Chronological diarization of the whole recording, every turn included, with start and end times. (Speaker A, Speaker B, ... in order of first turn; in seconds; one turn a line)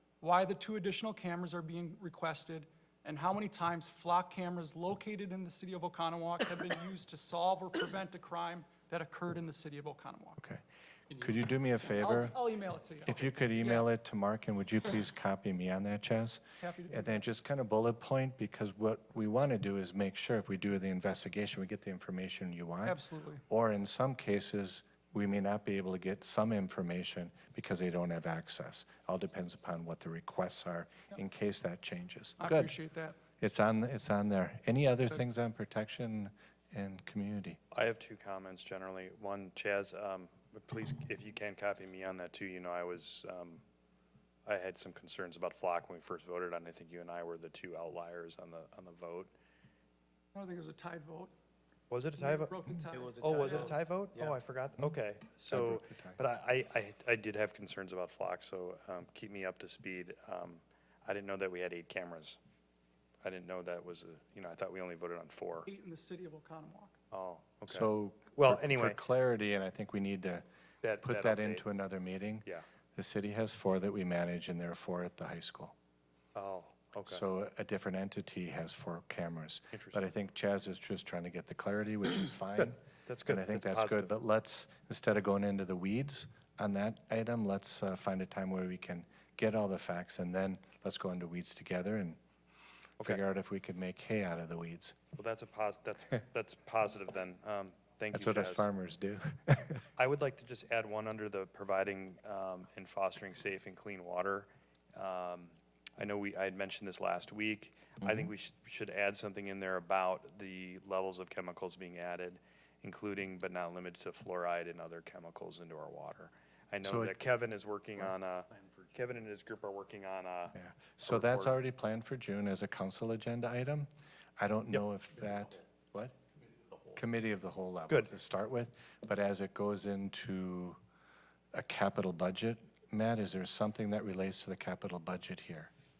Speaker A: 0.2-10.4
Speaker B: 10.4-12.4
Speaker A: 11.9-13.9
Speaker B: 13.1-23.0
Speaker A: 16.6-17.2
Speaker A: 22.8-23.4
Speaker B: 23.5-32.8
Speaker A: 32.4-33.2
Speaker B: 33.4-37.6
Speaker C: 37.7-43.6
Speaker C: 44.5-49.3
Speaker A: 50.3-51.3
Speaker C: 51.9-52.5
Speaker A: 52.2-53.7
Speaker C: 53.1-62.4
Speaker B: 55.5-56.2
Speaker C: 63.2-65.7
Speaker A: 65.6-66.9
Speaker C: 67.1-69.1
Speaker B: 67.7-70.4
Speaker C: 70.8-71.7
Speaker B: 71.0-75.7
Speaker C: 76.3-77.2
Speaker B: 77.1-92.2
Speaker C: 79.7-80.0
Speaker C: 83.0-84.1
Speaker B: 93.0-95.0
Speaker C: 95.2-98.7
Speaker B: 98.1-99.8
Speaker C: 100.0-121.6
Speaker B: 108.0-108.3
Speaker B: 116.8-117.2
Speaker B: 120.5-126.1
Speaker B: 126.9-130.8
Speaker C: 127.9-128.2
Speaker B: 131.5-135.7